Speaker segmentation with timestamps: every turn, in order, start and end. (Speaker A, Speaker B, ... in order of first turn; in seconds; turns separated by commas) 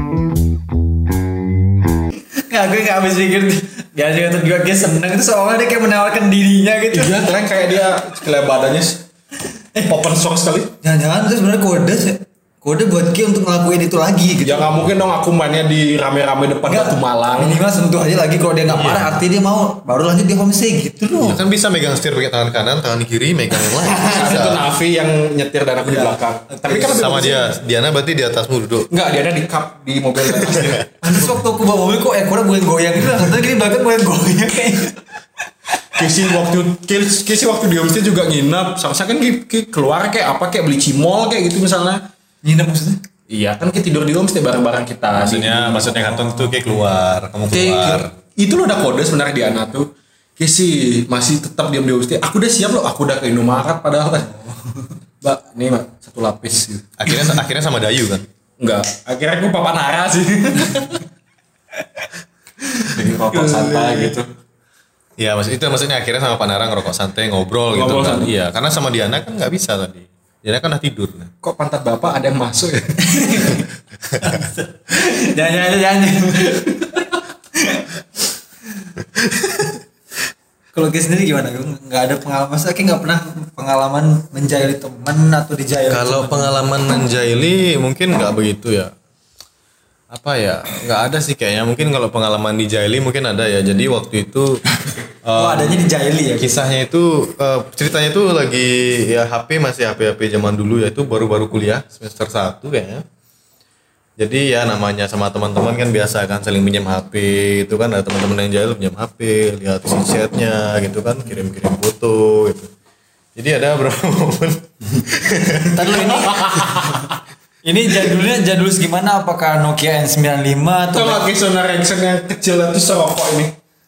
Speaker A: 2.4-7.2, Speaker B: 6.9-9.0, Speaker B: 9.8-10.7, Speaker A: 10.8-14.8, Speaker B: 14.4-17.6, Speaker A: 16.6-21.4, Speaker C: 18.7-19.1, Speaker C: 21.2-24.6, Speaker A: 23.6-24.4, Speaker B: 24.0-27.6, Speaker A: 25.8-27.0, Speaker C: 26.9-28.9, Speaker B: 28.9-31.3, Speaker A: 31.0-35.1, Speaker B: 35.9-42.0, Speaker A: 42.4-43.0, Speaker B: 43.3-46.0, Speaker C: 45.1-48.1, Speaker A: 46.0-46.5, Speaker B: 47.5-54.3, Speaker A: 54.2-54.9, Speaker B: 55.2-56.9, Speaker C: 57.0-58.3, Speaker A: 57.1-57.4, Speaker B: 58.6-61.0, Speaker A: 62.6-64.1, Speaker B: 62.8-64.3, Speaker C: 65.2-71.3, Speaker B: 67.7-68.3, Speaker B: 71.4-73.6, Speaker A: 73.0-73.7, Speaker A: 74.2-77.9, Speaker A: 80.7-87.0, Speaker C: 85.9-88.9, Speaker C: 90.1-94.6, Speaker C: 95.2-103.0, Speaker A: 95.3-96.7, Speaker C: 104.2-112.7, Speaker C: 113.3-116.0, Speaker A: 115.6-116.8, Speaker B: 115.9-117.1, Speaker A: 117.6-121.2, Speaker B: 120.9-123.5